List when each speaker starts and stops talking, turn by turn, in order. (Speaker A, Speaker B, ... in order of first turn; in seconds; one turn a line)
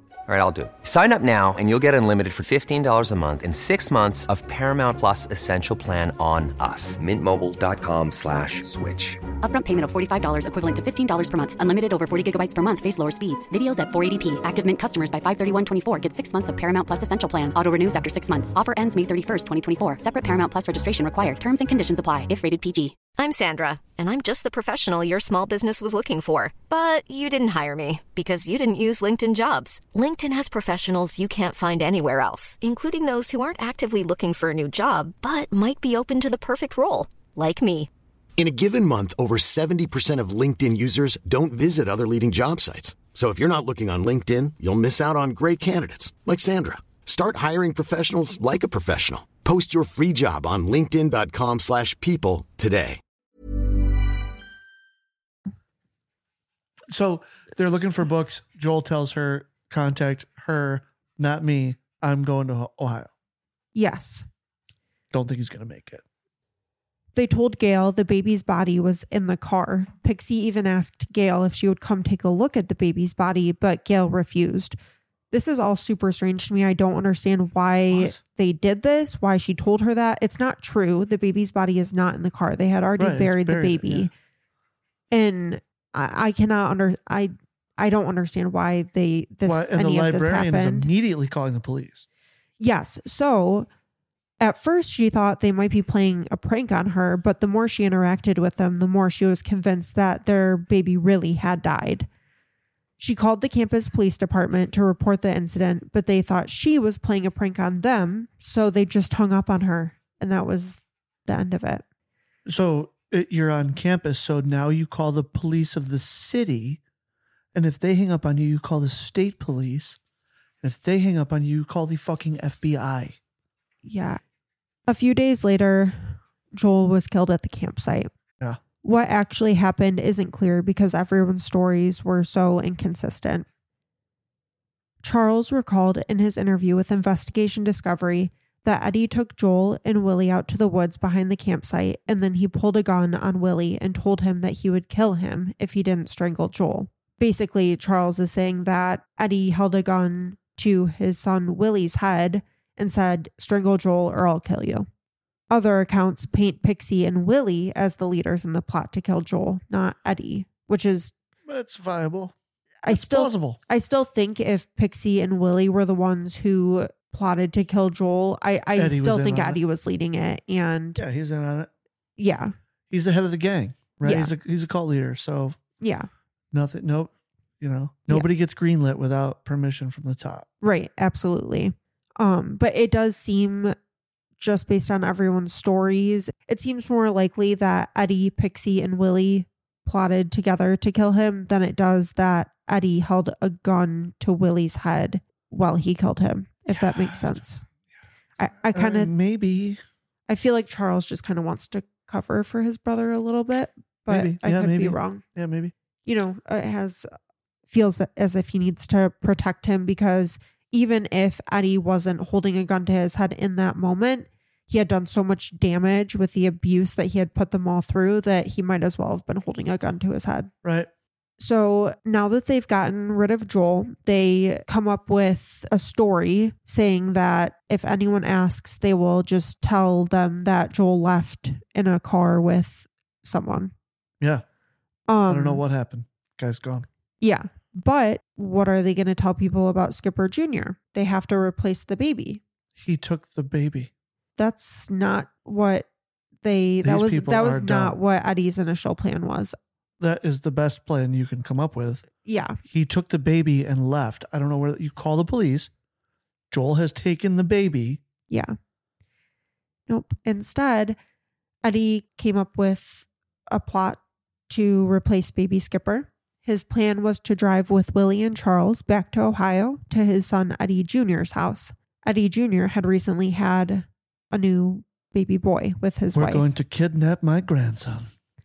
Speaker A: 0.3-9.2
Speaker B: 9.4-23.0
Speaker C: 23.1-37.9
Speaker D: 38.4-53.0
Speaker E: 56.9-63.1
Speaker F: 63.7-64.2
Speaker E: 65.1-66.0
Speaker F: 67.1-74.8
Speaker F: 75.3-84.1
Speaker E: 77.9-78.2
Speaker E: 83.0-84.1
Speaker F: 85.1-90.9
Speaker E: 89.4-92.1
Speaker F: 92.6-93.7
Speaker F: 94.4-102.1
Speaker F: 103.0-111.8
Speaker E: 112.5-116.8
Speaker E: 117.5-120.0
Speaker E: 120.6-123.2
Speaker F: 123.8-124.2
Speaker F: 124.9-128.1
Speaker F: 128.8-133.4
Speaker F: 135.0-154.9
Speaker F: 155.5-161.1
Speaker E: 161.4-162.3
Speaker F: 162.8-171.0
Speaker E: 162.9-163.6
Speaker E: 168.8-169.6
Speaker E: 171.0-171.7
Speaker F: 172.2-172.5
Speaker E: 172.9-175.6
Speaker F: 174.0-174.3
Speaker F: 175.8-176.1
Speaker E: 176.5-180.5
Speaker F: 180.6-183.7
Speaker F: 184.4-197.6
Speaker E: 196.7-197.5
Speaker F: 198.4-199.1
Speaker E: 198.7-199.8
Speaker F: 200.3-205.2
Speaker E: 204.1-205.7
Speaker F: 206.1-207.1
Speaker F: 207.7-220.5
Speaker E: 220.6-220.9
Speaker F: 221.4-233.7
Speaker F: 235.1-235.6
Speaker E: 235.3-236.9
Speaker F: 237.2-242.4
Speaker E: 242.8-243.9
Speaker F: 244.4-245.9
Speaker F: 246.4-249.6
Speaker E: 246.8-248.0
Speaker E: 250.0-252.0
Speaker F: 252.2-252.6
Speaker E: 252.7-255.7
Speaker E: 256.5-258.0
Speaker F: 258.3-258.6
Speaker F: 259.9-261.0
Speaker F: 261.6-276.5
Speaker E: 276.1-278.1